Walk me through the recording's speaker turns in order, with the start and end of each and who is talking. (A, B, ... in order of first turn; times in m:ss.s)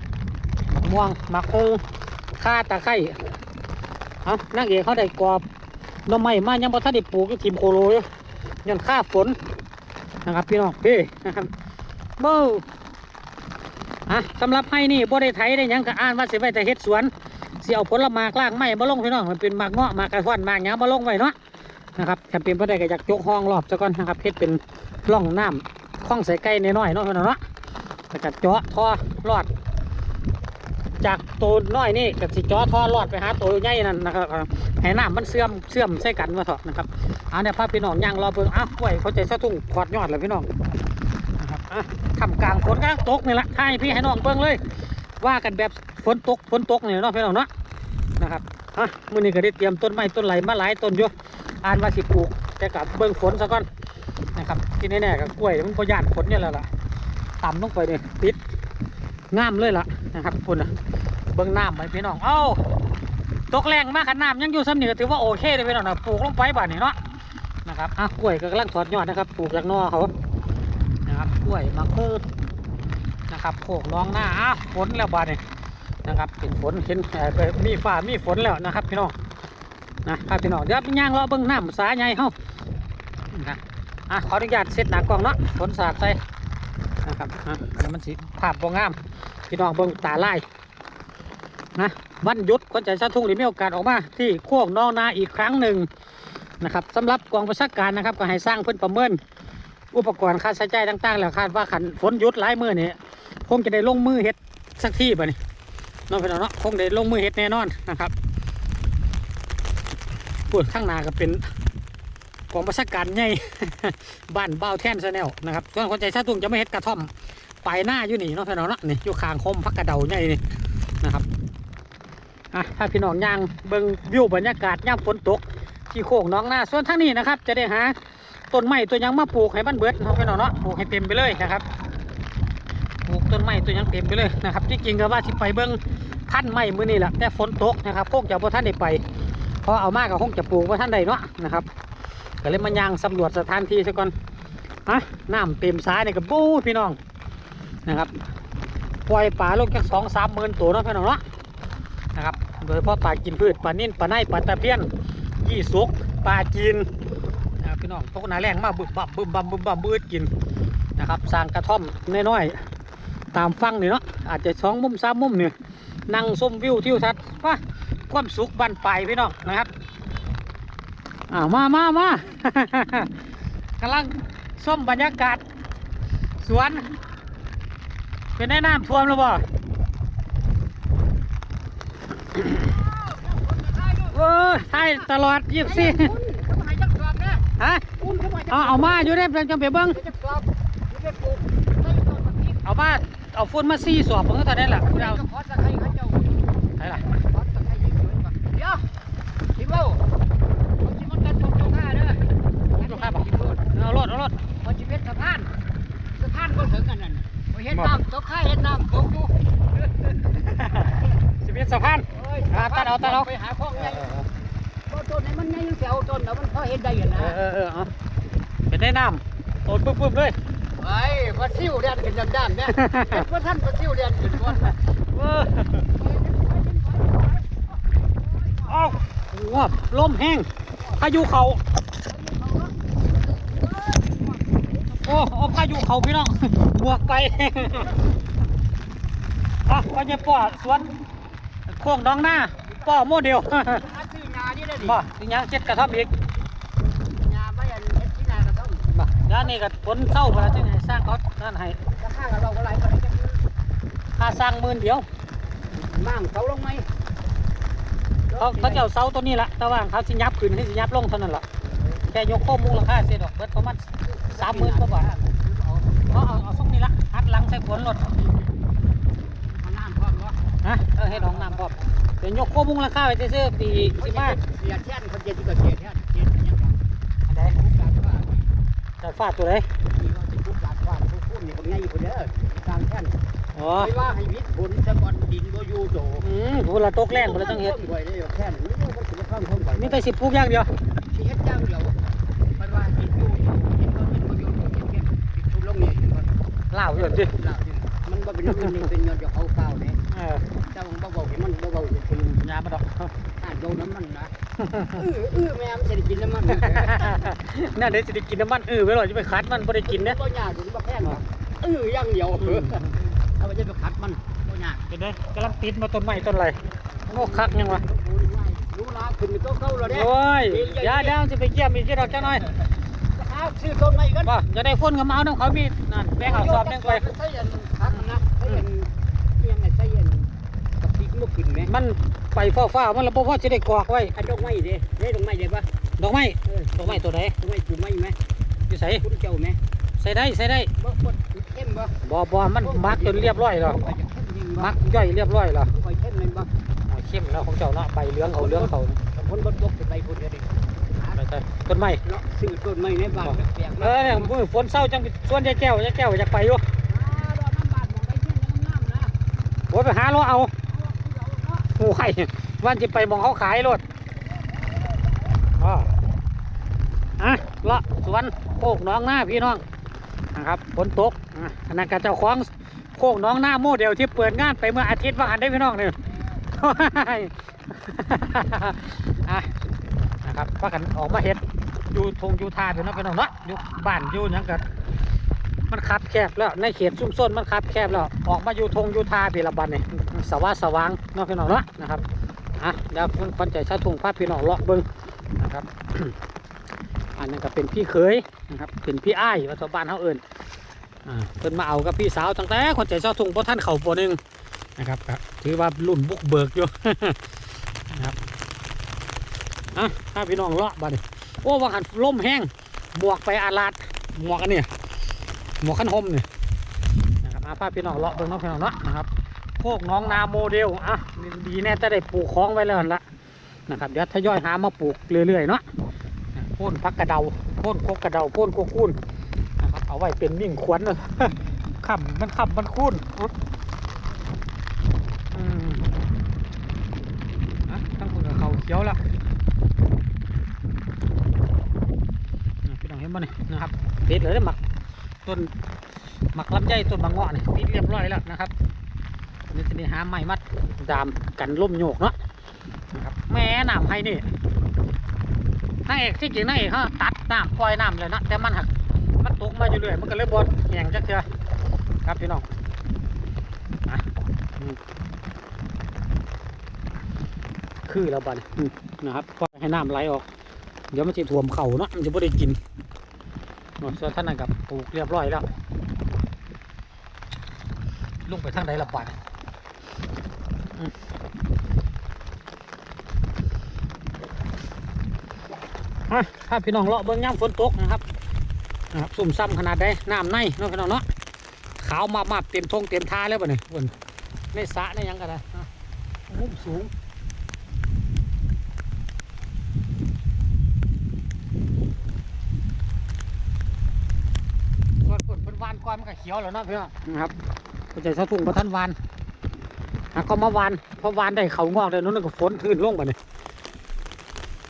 0:00.7-0:01.8 A
0:02.4-0:03.2 A
0:04.2-0:05.4 A
0:06.0-0:08.0 A
0:08.6-0:09.4 A
0:10.2-0:11.5 A
0:12.2-0:12.6 A
0:14.1-0:21.3 A
0:22.0-0:27.4 A
0:28.1-0:29.5 A
0:31.0-0:40.5 A
0:41.4-0:44.6 A
0:45.2-0:47.5 A
0:48.2-0:53.7 A
0:54.3-0:56.7 A
0:57.4-0:58.4 A
0:59.3-1:00.7 A
1:01.3-1:02.6 A
1:03.5-1:07.0 A
1:07.6-1:10.1 A
1:11.0-1:12.2 A
1:13.3-1:15.4 A
1:16.0-1:19.1 A
1:20.0-1:22.3 A
1:23.3-1:26.2 A
1:27.0-1:29.0 A
1:29.5-1:30.4 A
1:31.8-1:35.9 A
1:36.6-1:39.2 A
1:39.9-1:45.4 A
1:46.1-1:48.1 A
1:50.5-1:51.4 A
1:52.5-1:57.1 A
1:57.6-2:00.4 A
2:01.0-2:01.2 A
2:02.5-2:08.0 A
2:08.5-2:11.6 A
2:13.0-2:19.0 A
2:19.6-2:21.7 A
2:22.4-2:24.1 A
2:24.8-2:27.0 A
2:27.8-2:28.1 A
2:29.0-2:31.2 A
2:32.1-2:34.9 A
2:35.4-2:36.9 A
2:37.6-2:40.3 A
2:41.0-2:42.6 A
2:43.3-2:45.5 A
2:46.1-2:49.7 A
2:51.3-2:53.1 A
2:53.8-2:55.4 A
2:56.4-2:56.9 A
2:58.4-2:59.4 A
3:02.7-3:05.0 B
3:04.1-3:06.1 A
3:05.6-3:07.4 B
3:07.6-3:07.8 A
3:08.0-3:09.2 B
3:08.5-3:10.0 A
3:09.9-3:12.6 B
3:12.6-3:15.2 A
3:14.6-3:18.8 B
3:16.8-3:17.0 A
3:19.6-3:20.0 B
3:20.8-3:23.6 B
3:22.8-3:24.4 A
3:24.6-3:25.5 B
3:26.1-3:29.3 B
3:30.2-3:33.3 A
3:30.8-3:31.0 B
3:32.1-3:34.2 B
3:33.8-3:34.2 A
3:34.9-3:37.4 B
3:37.2-3:37.9 A
3:38.7-3:40.4 A
3:40.8-3:44.8 B
3:42.7-3:43.3 A
3:45.1-3:45.9 A
3:45.9-3:49.0 B
3:48.6-3:51.6 A
3:52.0-3:52.8 B
3:53.4-3:55.4 B
3:55.0-3:58.0 A
3:59.6-4:00.9 A
4:01.7-4:03.9 A
4:03.7-4:05.0 B
4:04.8-4:06.1 A
4:07.0-4:08.9 B
4:08.9-4:11.8 A
4:11.9-4:13.4 B
4:14.2-4:15.1 A
4:15.7-4:16.8 B
4:18.3-4:18.8 B
4:18.4-4:21.4 A
4:22.1-4:25.1 A
4:24.2-4:26.0 B
4:26.1-4:28.1 A
4:29.5-4:30.4 B
4:30.6-4:34.4 A
4:31.0-4:31.8 B
4:33.9-4:36.8 B
4:37.3-4:37.6 A
4:37.4-4:38.4 B
4:39.0-4:39.7 A
4:39.9-4:43.1 B
4:43.5-4:43.9 A
4:43.8-4:46.3 B
4:46.2-4:47.7 A
4:47.1-4:50.0 B
4:49.7-4:50.7 A
4:51.1-4:52.0 B
4:52.6-4:56.3 B
4:56.7-4:57.3 A
4:56.9-5:00.0 B
5:00.1-5:00.4 A
5:00.6-5:02.3 B
5:02.1-5:03.1 A
5:03.4-5:04.3 B
5:04.6-5:05.0 A
5:04.9-5:07.2 B
5:06.6-5:10.2 A
5:09.8-5:14.8 B
5:12.4-5:12.9 A
5:14.9-5:17.8 A
5:17.1-5:21.2 B
5:19.8-5:22.4 A
5:23.1-5:24.3 B
5:24.2-5:27.1 A
5:26.2-5:30.3 B
5:30.8-5:31.7 B
5:31.6-5:34.1 A
5:34.1-5:35.7 B
5:36.0-5:37.3 A
5:36.4-5:38.2 B
5:38.7-5:39.0 A
5:39.0-5:39.6 B
5:40.0-5:40.7 A
5:40.8-5:41.9 B
5:42.0-5:43.8 A
5:42.6-5:45.1 B
5:44.6-5:45.7 A
5:45.7-5:46.5 B
5:46.8-5:49.0 A
5:48.3-5:51.2 B
5:51.2-5:52.0 A
5:52.0-5:54.3 B
5:53.1-5:56.6 A
5:56.9-5:59.1 B
5:59.7-6:00.5 A
6:00.7-6:01.7 B
6:01.7-6:03.8 A
6:05.6-6:05.9 A
6:07.2-6:09.6 A
6:10.3-6:16.0 A
6:16.5-6:19.5 A
6:20.2-6:24.6 A
6:25.7-6:32.0 A
6:32.6-6:36.1 A
6:37.2-6:40.2 A
6:41.0-6:44.2 A
6:44.8-6:47.2 A
6:47.9-6:48.2 A
6:49.7-6:54.7 A
6:55.6-6:56.3 A
6:57.2-6:59.1 A
6:59.6-7:03.0 A
7:03.7-7:05.6 A
7:06.3-7:09.0 A
7:09.6-7:13.3 A
7:15.3-7:15.9 A
7:17.7-7:19.0 A
7:22.6-7:24.6 A
7:25.2-7:25.5 A
7:26.3-7:28.5 A
7:29.5-7:32.2 A
7:32.9-7:34.2 A
7:35.8-7:41.3 A
7:42.0-7:42.5 A
7:43.9-7:44.8 A
7:47.8-7:50.2 A
7:50.9-7:52.6 A
7:53.8-7:55.4 A
7:58.3-7:59.2 A
8:06.1-8:08.0 A
8:08.9-8:11.0 A
8:11.8-8:13.9 A
8:14.5-8:15.7 A
8:16.3-8:16.9 A
8:25.0-8:27.3 A
8:27.9-8:29.0 A
8:30.1-8:33.2 A